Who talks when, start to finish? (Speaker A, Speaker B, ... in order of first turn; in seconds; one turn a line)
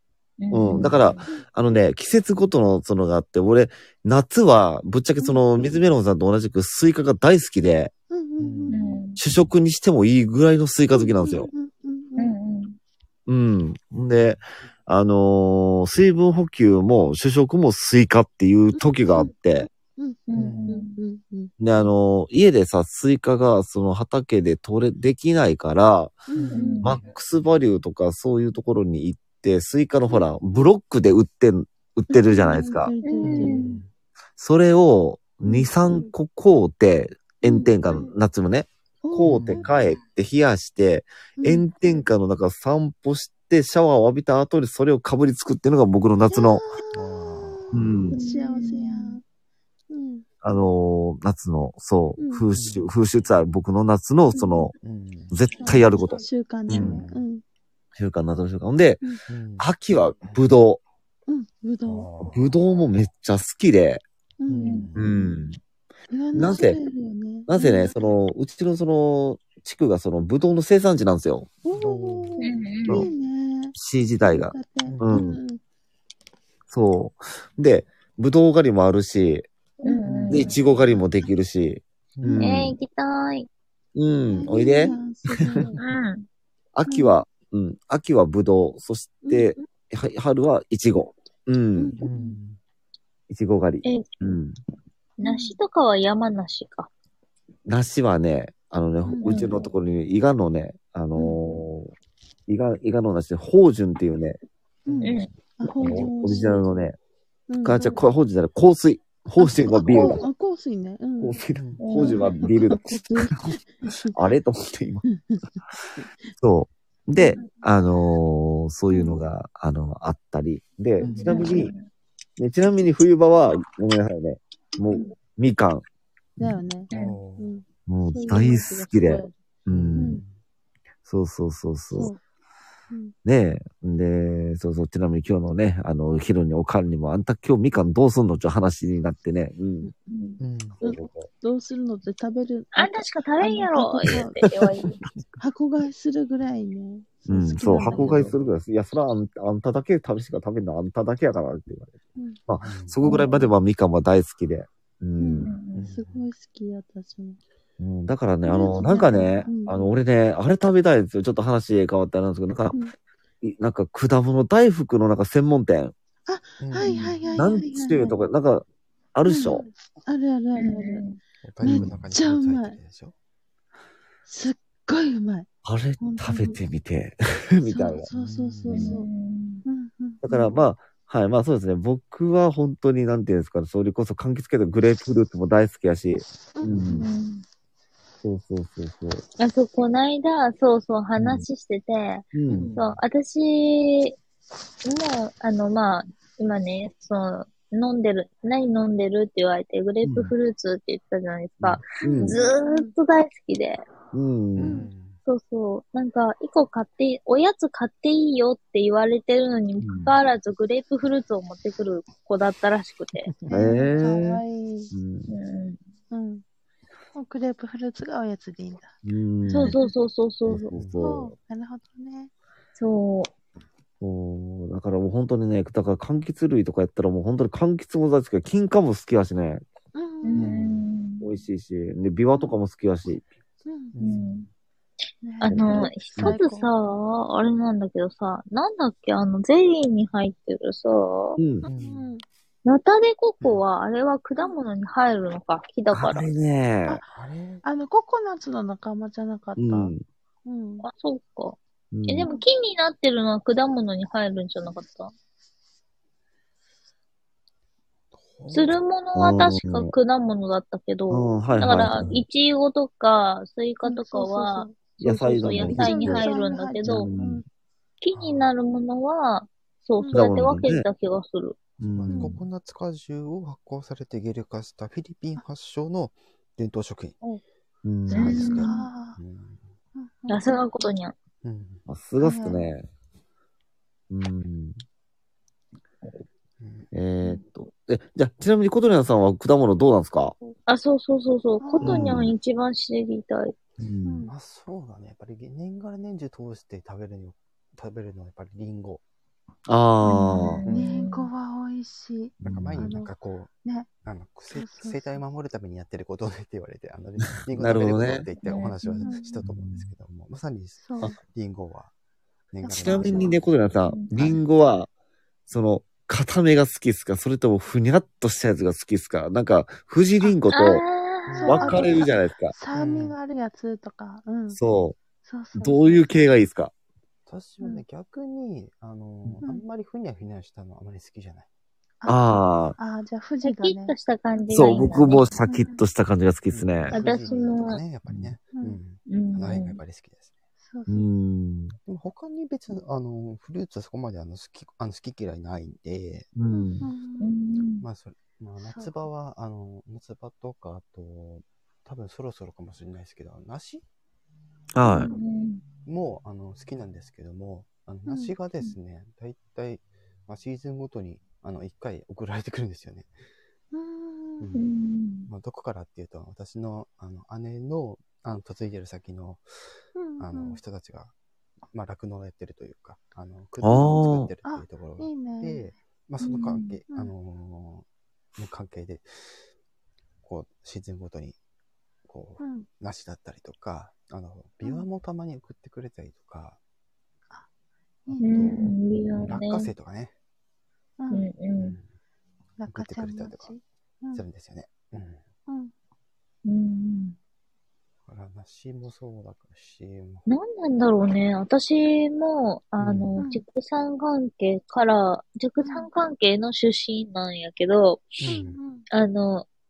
Speaker A: 0.4-1.2
Speaker B: 0.5-7.9
Speaker C: 0.7-1.4
Speaker C: 5.2-5.8
Speaker C: 8.1-9.0
Speaker D: 8.4-8.8
Speaker A: 8.7-9.2
Speaker B: 9.2-11.5
Speaker C: 10.9-12.3
Speaker A: 12.2-12.8
Speaker B: 13.3-19.7
Speaker C: 18.7-21.8
Speaker A: 20.3-21.0
Speaker D: 20.3-20.8
Speaker B: 21.6-26.2
Speaker C: 26.3-26.9
Speaker D: 26.3-27.1
Speaker A: 26.5-26.9
Speaker B: 26.8-32.9
Speaker C: 32.1-33.7
Speaker A: 33.0-33.7
Speaker D: 33.2-33.9
Speaker B: 34.4-46.6
Speaker C: 35.4-36.1
Speaker C: 37.4-38.1
Speaker C: 39.0-39.7
Speaker D: 39.2-39.7
Speaker C: 41.4-42.0
Speaker C: 46.3-49.2
Speaker D: 46.9-48.0
Speaker B: 47.7-48.2
Speaker A: 48.1-49.2
Speaker C: 49.9-50.3
Speaker B: 50.4-54.7
Speaker C: 52.2-52.5
Speaker D: 52.5-52.9
Speaker D: 54.8-55.4
Speaker B: 55.3-57.0
Speaker C: 55.6-57.4
Speaker D: 56.7-57.2
Speaker B: 57.9-60.8
Speaker D: 59.3-60.4
Speaker C: 61.3-62.1
Speaker D: 61.9-62.6
Speaker B: 62.3-64.0
Speaker C: 64.4-64.9
Speaker D: 64.5-65.1
Speaker B: 64.9-65.6
Speaker C: 66.1-68.1
Speaker B: 66.3-66.8
Speaker B: 67.5-71.5
Speaker C: 71.6-75.6
Speaker D: 71.8-72.4
Speaker A: 72.4-73.1
Speaker B: 73.8-75.4
Speaker D: 74.8-75.1
Speaker B: 76.7-79.5
Speaker A: 79.8-80.6
Speaker C: 79.8-81.0
Speaker B: 80.3-82.8
Speaker D: 82.2-82.5
Speaker C: 82.3-82.6
Speaker A: 82.4-83.5
Speaker B: 83.9-85.6
Speaker C: 84.3-85.8
Speaker A: 85.8-86.3
Speaker B: 86.7-92.0
Speaker C: 86.9-87.2
Speaker C: 89.2-89.6
Speaker C: 91.8-92.4
Speaker D: 92.0-92.6
Speaker B: 93.3-94.6
Speaker A: 93.8-94.2
Speaker A: 95.2-96.9
Speaker C: 95.2-95.6
Speaker B: 97.7-101.9
Speaker C: 99.0-99.7
Speaker A: 99.2-99.6
Speaker C: 101.1-101.4
Speaker B: 102.5-104.4
Speaker D: 104.8-105.2
Speaker C: 104.9-106.7
Speaker A: 105.0-105.3
Speaker B: 105.8-107.0
Speaker C: 107.5-108.0
Speaker B: 107.6-110.2
Speaker C: 109.4-111.4
Speaker B: 111.2-115.0
Speaker D: 111.5-111.8
Speaker A: 111.8-112.3
Speaker C: 111.9-114.1
Speaker B: 116.4-121.7
Speaker C: 117.2-117.4
Speaker C: 118.9-119.2
Speaker C: 121.0-121.6
Speaker D: 121.0-121.5
Speaker A: 121.2-121.8
Speaker B: 122.4-125.8
Speaker C: 126.4-129.3
Speaker D: 126.9-127.6
Speaker A: 126.9-127.2
Speaker B: 127.9-130.2
Speaker D: 129.7-130.4
Speaker C: 129.9-130.2
Speaker B: 131.1-132.1
Speaker C: 131.9-132.2
Speaker B: 133.2-139.9
Speaker C: 139.8-140.3
Speaker A: 140.1-140.4
Speaker D: 140.4-140.8
Speaker B: 140.8-141.3
Speaker C: 140.8-144.4
Speaker A: 142.7-145.0
Speaker B: 144.4-144.8
Speaker C: 145.4-148.3
Speaker B: 147.3-155.5
Speaker D: 147.7-148.5
Speaker D: 152.6-153.0
Speaker C: 153.0-153.5
Speaker C: 155.2-157.4
Speaker A: 155.4-155.9
Speaker D: 155.7-156.3
Speaker B: 157.8-162.8
Speaker C: 158.4-159.9
Speaker B: 163.4-165.9
Speaker C: 166.3-168.2
Speaker D: 166.6-167.3
Speaker B: 166.9-169.7
Speaker C: 169.2-171.0
Speaker A: 170.5-171.2
Speaker D: 171.4-173.1
Speaker C: 171.6-172.8
Speaker B: 171.6-171.9
Speaker C: 174.3-175.5
Speaker B: 175.6-178.1
Speaker C: 176.0-176.6
Speaker C: 177.6-179.1
Speaker D: 178.1-178.9
Speaker A: 178.7-179.6
Speaker C: 179.7-180.6
Speaker B: 180.2-187.1
Speaker C: 186.6-186.8
Speaker A: 186.9-187.4
Speaker B: 188.2-189.2
Speaker A: 189.4-194.2
Speaker B: 191.2-191.5
Speaker B: 192.3-192.7
Speaker D: 192.5-192.8
Speaker C: 192.6-192.8
Speaker A: 194.8-203.8
Speaker B: 200.0-200.3
Speaker B: 201.6-202.3
Speaker C: 202.0-202.9
Speaker B: 204.1-204.8
Speaker D: 204.5-205.2
Speaker C: 204.6-204.9
Speaker A: 205.2-213.3
Speaker B: 209.8-210.1
Speaker C: 213.5-214.9
Speaker B: 213.5-215.3
Speaker A: 215.3-215.8
Speaker C: 216.1-216.4
Speaker C: 217.1-218.9
Speaker B: 219.0-219.8
Speaker A: 219.5-220.7
Speaker C: 219.5-219.9
Speaker B: 220.4-221.3
Speaker D: 220.7-221.0
Speaker C: 221.0-222.3
Speaker A: 222.8-223.3
Speaker B: 224.0-229.6
Speaker C: 229.9-230.5
Speaker A: 230.2-231.2
Speaker D: 230.3-230.8
Speaker B: 231.2-233.2
Speaker C: 233.6-234.0
Speaker D: 233.9-234.5
Speaker A: 234.0-234.5
Speaker C: 235.2-236.7
Speaker A: 235.4-241.4
Speaker B: 235.5-236.3
Speaker B: 241.4-241.6
Speaker C: 241.6-242.2
Speaker D: 241.7-242.1
Speaker A: 242.6-246.3
Speaker B: 245.9-247.0
Speaker D: 247.1-247.6
Speaker C: 247.6-249.9
Speaker B: 249.6-250.0
Speaker C: 250.4-250.9
Speaker A: 250.8-255.1
Speaker B: 251.9-252.3
Speaker D: 258.1-258.8
Speaker A: 258.5-267.1
Speaker B: 259.1-259.9
Speaker B: 261.1-262.2
Speaker C: 263.8-267.4
Speaker B: 265.0-266.3
Speaker B: 266.8-267.4
Speaker A: 268.0-271.6
Speaker D: 268.1-268.5
Speaker C: 270.0-270.3
Speaker B: 270.1-270.9
Speaker B: 271.8-272.4
Speaker D: 271.8-277.2
Speaker C: 272.1-272.4
Speaker B: 277.8-278.6
Speaker D: 278.1-279.6
Speaker A: 278.1-278.8
Speaker C: 278.6-279.2
Speaker C: 279.9-280.5
Speaker A: 280.3-281.1
Speaker D: 281.4-281.9
Speaker B: 281.9-282.8
Speaker C: 282.2-282.6
Speaker B: 284.1-284.8
Speaker D: 286.6-286.9
Speaker B: 286.9-290.3
Speaker A: 290.7-293.5
Speaker C: 291.6-292.1
Speaker B: 291.8-292.3
Speaker B: 293.8-294.2
Speaker C: 294.0-294.3
Speaker D: 294.2-299.0
Speaker B: 299.7-300.6
Speaker C: 300.0-303.1
Speaker A: 300.4-301.3
Speaker D: 302.4-303.5
Speaker B: 302.4-302.8
Speaker C: 303.6-303.9
Speaker D: 304.0-311.9
Speaker C: 304.5-305.2
Speaker B: 307.5-308.3
Speaker A: 308.4-309.1
Speaker C: 309.0-309.4
Speaker B: 309.4-309.9
Speaker C: 310.8-311.1
Speaker D: 312.5-313.5
Speaker C: 312.6-313.4
Speaker B: 312.8-314.9
Speaker A: 313.9-314.1
Speaker B: 315.5-320.8
Speaker A: 320.5-322.0
Speaker D: 321.3-321.8
Speaker C: 321.4-324.6
Speaker B: 321.4-322.5
Speaker D: 322.7-323.1
Speaker B: 324.5-325.0
Speaker C: 325.2-326.1
Speaker B: 325.6-326.7
Speaker D: 327.3-331.5
Speaker C: 332.0-335.8
Speaker B: 332.1-332.8
Speaker A: 333.4-335.3
Speaker B: 334.5-336.9
Speaker D: 336.5-340.3
Speaker A: 336.9-337.8
Speaker B: 338.1-338.3
Speaker A: 339.1-339.8
Speaker C: 340.6-341.1
Speaker B: 340.9-341.8
Speaker D: 341.8-346.3
Speaker B: 346.3-346.9
Speaker C: 346.5-347.3
Speaker A: 347.2-347.9
Speaker D: 347.8-353.8
Speaker C: 348.6-349.0
Speaker B: 354.7-355.1
Speaker A: 354.8-355.6
Speaker D: 355.9-363.1
Speaker C: 358.1-358.3
Speaker C: 363.7-364.5
Speaker D: 364.4-364.7
Speaker A: 364.5-365.3
Speaker D: 365.3-369.4
Speaker C: 369.9-370.6
Speaker D: 370.2-371.1
Speaker D: 371.7-377.9
Speaker B: 373.6-374.3
Speaker C: 374.4-375.7
Speaker A: 376.2-376.7
Speaker D: 378.4-379.4
Speaker D: 380.2-381.4
Speaker D: 382.1-386.6
Speaker C: 382.4-382.7
Speaker C: 388.1-388.6
Speaker D: 388.1-390.1
Speaker A: 388.2-389.7
Speaker C: 391.0-391.3
Speaker A: 391.1-391.8
Speaker D: 391.6-391.9
Speaker C: 392.6-394.2
Speaker D: 392.7-393.5
Speaker D: 394.1-395.2
Speaker C: 395.5-395.7
Speaker A: 396.4-397.2
Speaker D: 398.1-400.2
Speaker A: 400.3-408.2
Speaker D: 402.8-403.2
Speaker C: 403.2-403.4
Speaker C: 405.6-405.9
Speaker D: 408.2-408.6
Speaker C: 408.3-408.9
Speaker A: 408.9-409.4